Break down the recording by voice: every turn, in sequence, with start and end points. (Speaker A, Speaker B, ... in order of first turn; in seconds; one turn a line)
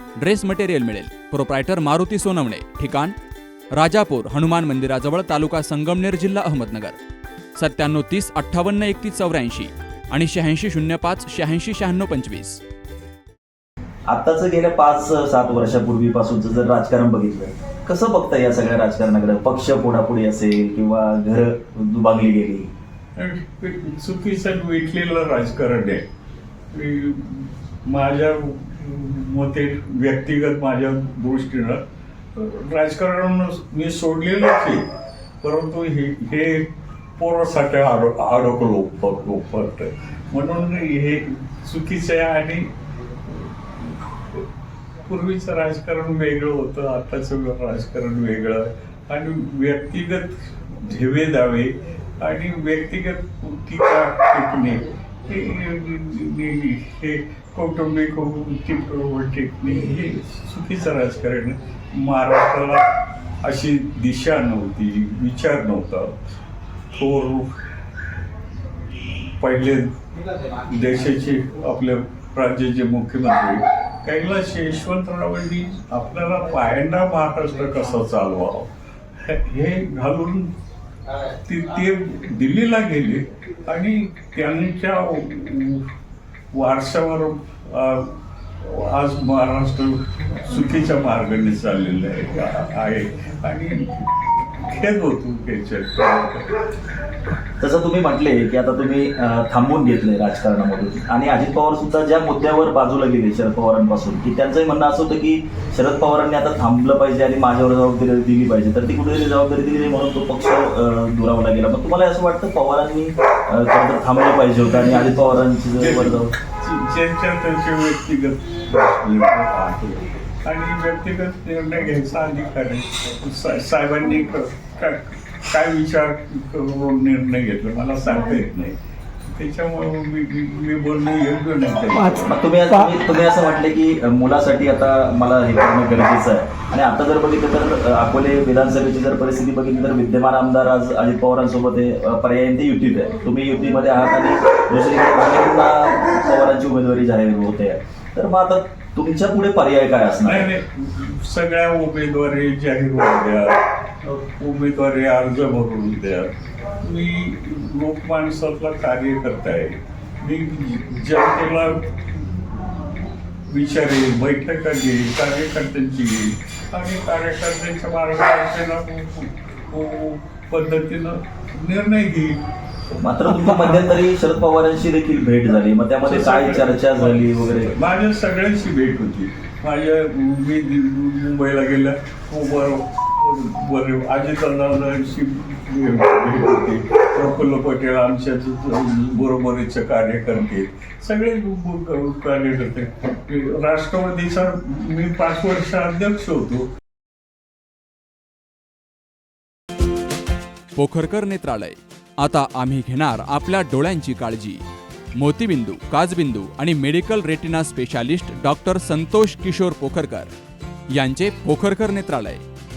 Speaker A: 0.2-3.1
Speaker A: 3.7-7.0
Speaker A: 7.5-12.6
Speaker B: 14.1-22.7
Speaker C: 23.1-26.0
Speaker C: 26.7-31.8
Speaker C: 32.3-34.9
Speaker C: 35.4-42.7
Speaker C: 43.3-44.4
Speaker C: 45.0-62.8
Speaker C: 63.4-66.1
Speaker C: 66.9-67.5
Speaker C: 69.4-69.9
Speaker C: 70.5-78.7
Speaker C: 79.2-80.5
Speaker C: 81.4-85.8
Speaker C: 86.5-93.9
Speaker C: 94.5-96.5
Speaker B: 97.6-116.3
Speaker C: 114.6-132.3
Speaker B: 132.2-150.5
Speaker C: 150.2-161.8
Speaker C: 163.5-172.4
Speaker B: 173.0-177.7
Speaker C: 176.0-196.7
Speaker A: 200.8-204.6
Speaker A: 205.2-210.3
Speaker A: 210.9-212.4